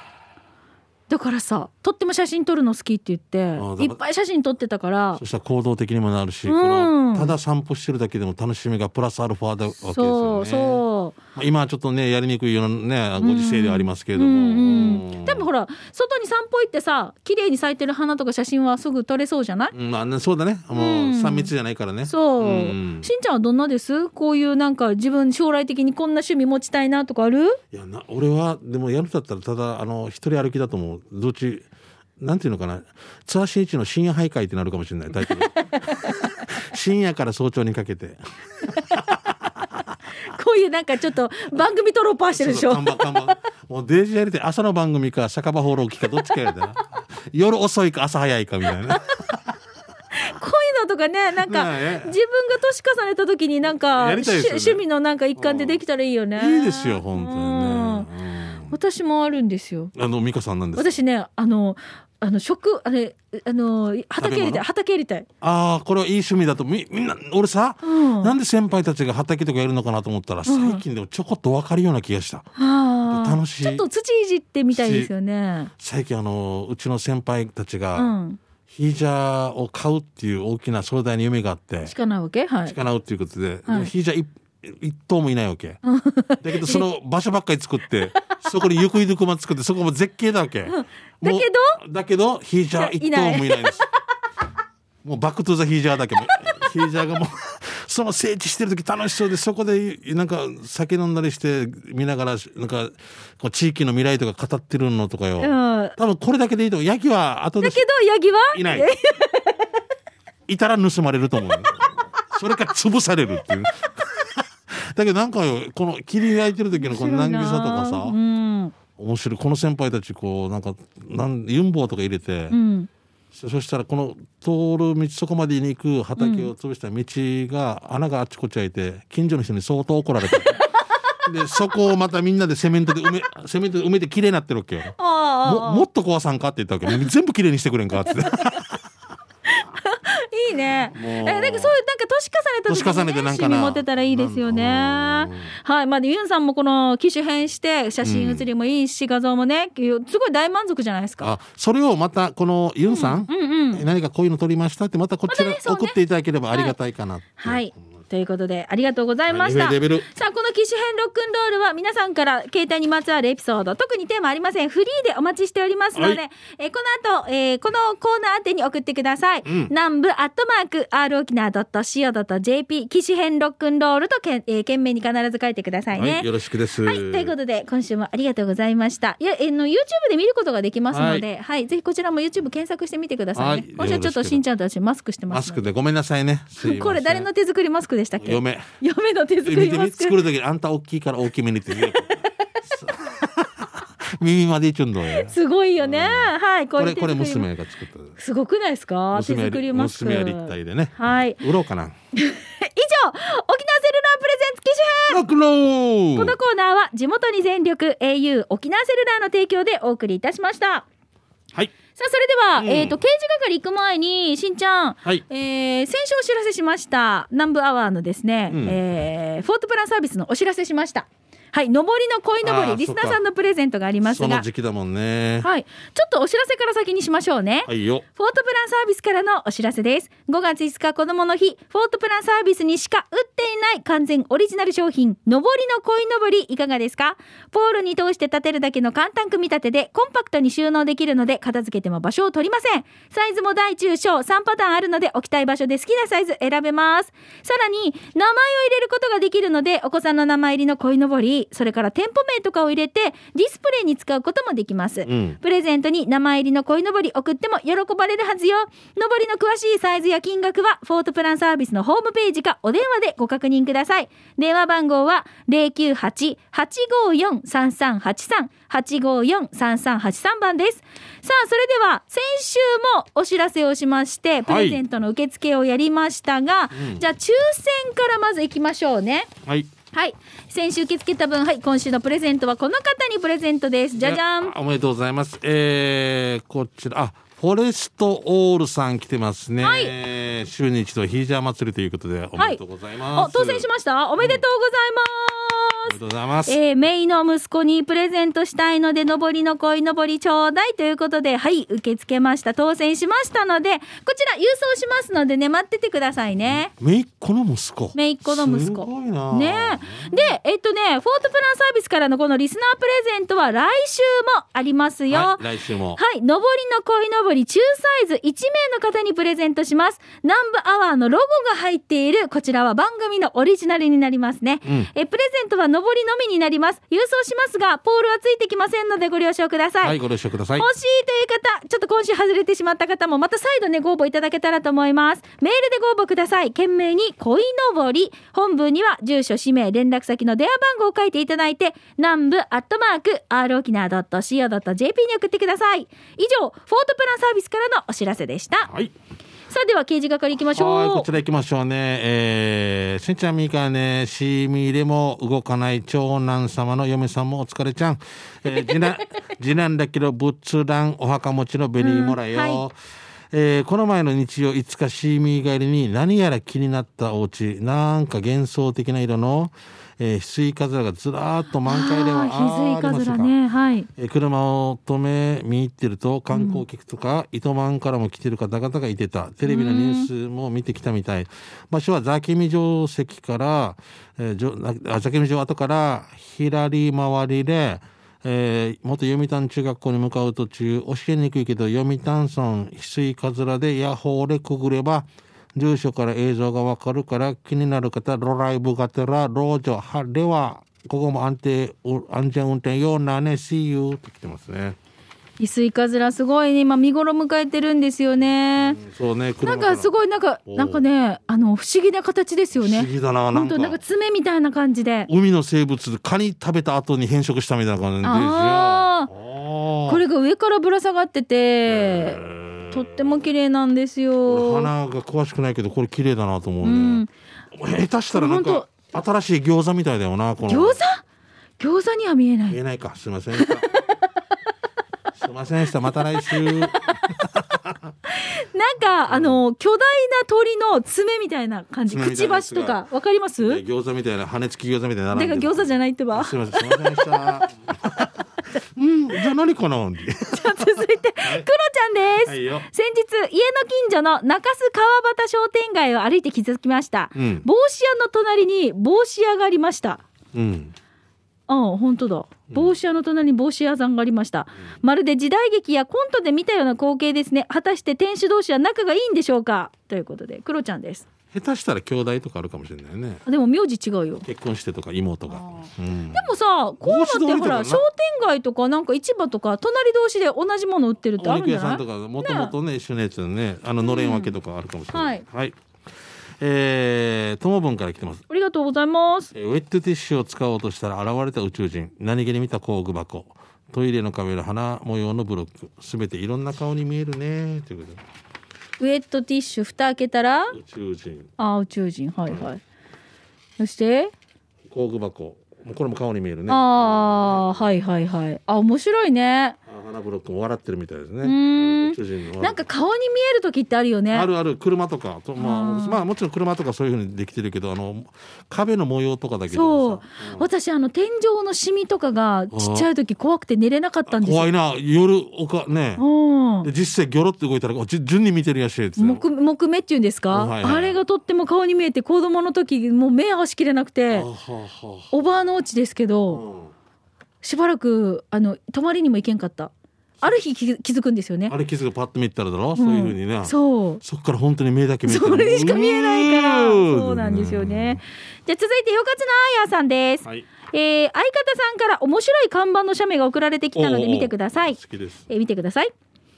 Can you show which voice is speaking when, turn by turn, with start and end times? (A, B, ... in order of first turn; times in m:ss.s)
0:01.1-0:05.2 A
0:03.6-0:04.0 B
0:05.2-0:10.8 B
0:06.4-0:07.3 A
0:09.8-0:11.2 A
0:11.3-0:15.5 B
0:13.2-0:19.7 A
0:19.7-0:23.1 B
0:20.7-0:21.5 A
0:22.0-0:27.6 A
0:27.7-0:31.7 B
0:32.2-0:39.8 B
0:35.3-0:36.4 A
0:40.3-0:43.4 A
0:42.3-0:49.4 B
0:48.9-0:49.1 A
0:50.1-0:58.1 A
0:51.4-0:52.1 B
0:53.9-0:54.8 B
0:55.4-0:55.8 B
0:56.4-0:58.7 B
0:58.7-0:59.9 A
0:59.9-1:01.0 B
1:00.8-1:05.3 A
1:04.2-1:04.6 B
1:05.4-1:12.5 B
1:07.8-1:08.3 A
1:10.4-1:10.8 A
1:12.6-1:15.7 A
1:13.1-1:13.8 B
1:14.7-1:15.1 B
1:15.8-1:18.1 B
1:17.9-1:18.4 A
1:18.7-1:21.9 B
1:21.8-1:22.8 A
1:22.6-1:25.8 B
1:25.8-1:26.8 A
1:26.4-1:33.9 B
1:30.7-1:31.8 A
1:32.8-1:33.9 A
1:35.0-1:47.8 B
1:36.2-1:36.6 A
1:45.4-1:46.0 A
1:47.6-1:49.7 A
1:48.5-1:48.9 B
1:50.5-1:58.2 B
1:56.8-1:58.7 A
1:59.0-2:02.6 B
2:02.5-2:02.9 A
2:03.3-2:10.6 B
2:06.2-2:06.5 A
2:10.3-2:11.2 A
2:11.2-2:18.8 B
2:15.0-2:15.8 A
2:19.5-2:31.3 A
2:20.9-2:21.7 B
2:22.7-2:25.5 B
2:28.0-2:28.5 B
2:31.2-2:37.7 B
2:32.8-2:33.8 A
2:35.3-2:36.0 A
2:37.4-2:56.3 A
2:39.3-2:40.1 B
2:45.9-2:46.2 B
2:49.4-2:49.7 B
2:55.9-2:57.3 B
2:56.8-3:05.6 A
3:00.9-3:01.2 B
3:03.4-3:04.4 B
3:05.3-3:07.3 B
3:06.6-3:10.2 A
3:08.2-3:08.7 B
3:09.4-3:18.2 B
3:15.1-3:17.5 A
3:18.2-3:21.4 A
3:19.1-3:21.9 B
3:22.1-3:25.2 A
3:25.1-3:26.4 B
3:26.2-3:30.8 A
3:32.0-3:44.4 A
3:32.6-3:33.0 B
3:38.5-3:38.8 B
3:42.4-3:43.2 B
3:44.0-3:45.5 B
3:45.4-4:39.3 A
3:47.7-3:48.0 B
4:15.0-4:15.4 B
4:34.5-4:34.8 B
4:36.7-4:37.0 B
4:39.9-4:44.5 A
4:43.9-4:53.7 B
4:49.6-4:49.9 A
4:53.1-5:06.7 A
4:55.9-4:56.6 B
5:06.4-5:10.2 B
5:07.9-5:15.4 A
5:15.1-5:16.0 B
5:16.0-5:30.0 A
5:24.6-5:24.9 B
5:29.8-5:30.7 B
5:30.6-5:48.7 A
5:48.6-5:48.9 B
5:49.5-5:51.1 A
5:50.4-6:02.7 B
5:58.5-5:59.0 A
6:01.8-6:02.6 A
6:03.3-6:13.3 B
6:11.6-6:13.9 A
6:14.0-6:44.8 B
6:16.3-6:16.6 A
6:19.4-6:20.1 A
6:45.4-6:48.8 A
6:48.6-6:49.9 B
6:49.4-6:55.1 A
6:50.4-6:50.8 B
6:52.5-6:53.8 B
6:55.1-7:00.0 B
6:58.0-6:59.1 A
6:59.8-7:04.7 A
7:01.6-7:03.2 B
7:04.3-7:10.8 B
7:06.6-7:07.1 A
7:08.1-7:08.7 A
7:10.4-7:11.0 A
7:11.6-7:12.6 A
7:12.5-7:13.7 B
7:13.4-7:14.0 A
7:15.2-7:17.9 B
7:15.9-7:17.2 A
7:18.0-7:23.6 A
7:19.1-7:19.4 B
7:21.9-7:22.8 B
7:23.4-7:31.5 B
7:25.1-7:27.5 A
7:30.3-7:40.0 A
7:32.2-7:32.7 B
7:37.1-7:37.4 B
7:40.3-7:40.7 B
7:41.5-7:51.0 A
7:42.5-7:42.8 B
7:51.3-7:53.2 B
7:53.2-7:54.2 A
7:54.2-7:56.3 B
7:55.3-8:02.5 A
7:56.8-7:57.8 B
8:01.2-8:05.6 B
8:03.8-8:04.4 A
8:04.9-8:05.2 A
8:06.4-8:08.2 B
8:08.3-8:09.3 A
8:09.3-8:18.0 B
8:18.8-8:20.5 A
8:20.5-8:21.3 B
8:21.4-8:22.6 A
8:23.6-8:24.1 A
8:24.7-8:27.8 B
8:26.5-8:29.6 A
8:29.7-8:32.6 B
8:31.2-8:34.3 A
8:34.1-8:40.4 B
8:35.4-8:36.0 A
8:39.5-8:44.5 A
8:42.5-8:42.9 B
8:44.1-8:46.0 B
8:46.0-8:46.7 A
8:46.6-8:49.2 B
8:49.0-8:54.3 A
8:50.3-8:51.0 B
8:54.1-8:55.2 B
8:55.1-8:56.4 A
8:56.3-8:56.7 B
8:57.4-8:59.7 A
9:00.2-9:01.5 A
9:01.5-9:08.0 B
9:02.8-9:04.0 A
9:05.0-9:14.8 A
9:13.7-9:15.3 B
9:15.3-9:15.9 A